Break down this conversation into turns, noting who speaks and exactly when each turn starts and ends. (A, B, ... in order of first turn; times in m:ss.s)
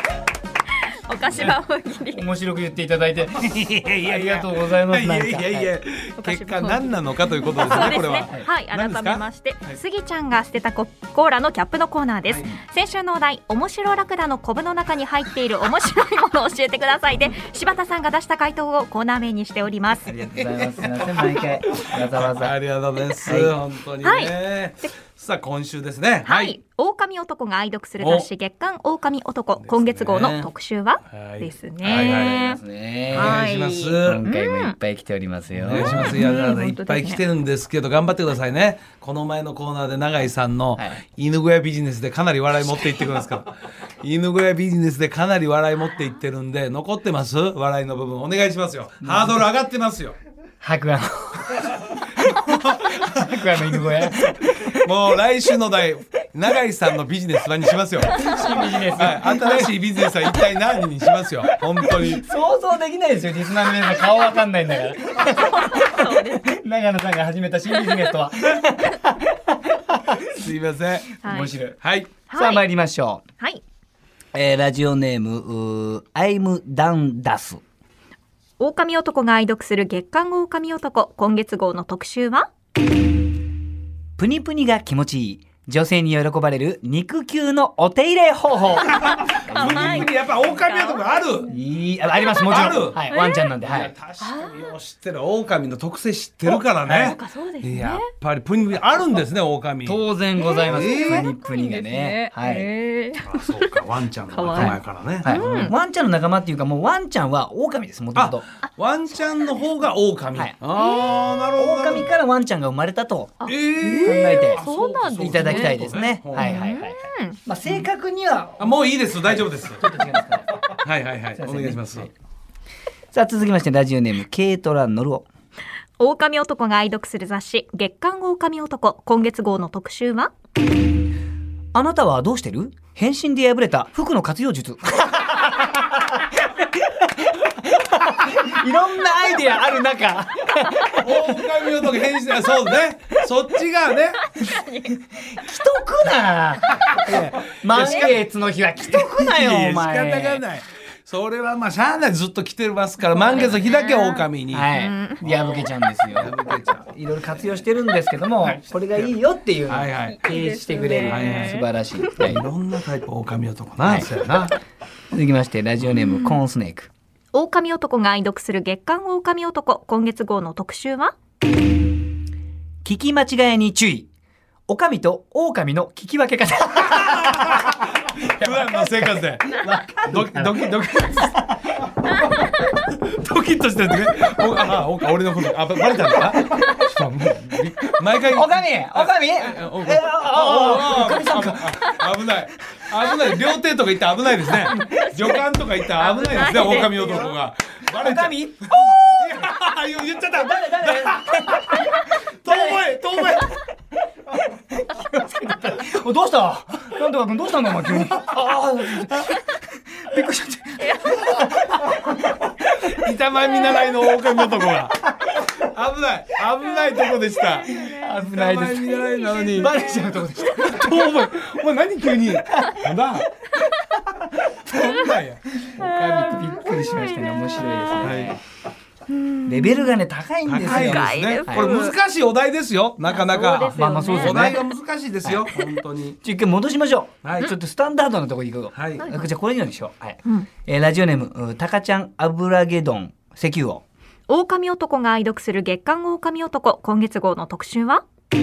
0:01.1-0:02.3 A
0:01.3-0:01.6 B
0:02.1-0:05.7 B
0:03.4-0:09.8 C
0:06.2-0:20.1 A
0:07.7-0:08.5 B
0:12.3-0:12.5 C
0:20.0-0:22.5 B
0:20.4-0:26.6 C
0:23.2-0:23.5 B
0:24.0-0:24.9 A
0:26.3-0:32.6 A
0:28.0-0:28.3 C
0:29.6-0:30.5 C
0:31.1-0:32.6 C
0:31.9-0:33.5 B
0:33.1-0:34.2 C
0:33.1-0:34.8 A
0:34.0-0:36.2 B
0:35.6-0:50.2 C
0:36.0-0:37.2 A
0:49.0-0:49.5 B
0:50.6-0:52.3 B
0:52.2-1:02.2 C
0:53.0-0:54.3 B
0:58.1-0:59.7 B
1:01.5-1:10.5 B
1:05.2-1:06.5 A
1:07.8-1:08.1 A
1:10.3-1:11.1 C
1:11.2-1:11.6 A
1:11.2-1:11.8 B
1:11.8-1:12.1 C
1:12.3-1:12.6 A
1:12.3-1:13.2 B
1:14.3-1:17.6 B
1:18.6-1:22.5 A
1:24.2-1:30.1 B
1:28.8-1:31.6 A
1:28.9-1:31.5 C
1:31.5-1:33.9 B
1:32.4-1:33.0 C
1:33.1-1:33.5 A
1:33.6-1:40.0 C
1:34.2-1:34.7 A
1:36.5-1:38.0 A
1:36.9-1:37.1 B
1:39.8-1:42.7 B
1:40.4-1:43.7 A
1:40.7-1:41.3 C
1:43.2-1:45.7 C
1:44.3-1:45.7 A
1:44.5-1:48.4 B
1:48.1-1:52.1 C
1:51.6-1:53.4 B
1:53.4-1:57.4 A
1:53.4-1:56.6 C
1:54.0-1:54.7 B
1:55.2-2:00.6 B
1:58.6-1:59.8 C
2:00.8-2:02.1 C
2:01.4-2:02.1 B
2:03.1-2:05.3 B
2:06.0-2:10.3 A
2:11.7-2:21.4 B
2:21.0-2:24.2 C
2:24.3-2:25.0 A
2:25.2-2:30.4 B
2:26.9-2:28.2 C
2:27.9-2:28.1 A
2:28.8-2:36.9 C
2:33.3-2:35.2 A
2:34.5-2:36.3 B
2:36.9-2:42.4 B
2:38.4-2:39.1 C
2:39.7-2:40.2 C
2:40.1-2:41.6 A
2:41.0-2:41.6 C
2:42.2-2:44.6 C
2:45.1-2:46.9 B
2:46.0-2:46.4 A
2:47.3-2:51.1 A
2:52.8-2:54.1 B
2:54.7-3:01.8 B
2:57.0-3:01.5 C
3:02.4-3:23.5 C
3:08.3-3:12.0 B
3:14.8-3:15.4 A
3:16.0-3:17.3 A
3:16.4-3:17.1 B
3:17.9-3:19.5 B
3:20.2-3:23.4 B
3:24.7-3:32.5 B
3:30.8-3:31.8 A
3:32.8-3:39.8 C
3:36.7-3:40.0 A
3:37.8-3:41.2 B
3:40.6-3:43.4 C
3:44.5-3:46.3 C
3:45.7-3:48.4 B
3:45.9-3:48.2 A
3:48.0-3:48.3 C
3:49.1-3:49.9 A
3:49.4-3:51.7 B
3:50.4-3:56.2 C
3:50.6-3:52.0 A
3:53.0-3:54.6 A
3:53.7-3:54.6 B
3:55.2-3:55.7 B
3:56.2-4:03.8 B
3:57.2-3:57.5 C
3:58.7-3:59.1 C
3:59.0-3:59.3 A
4:04.3-4:08.0 A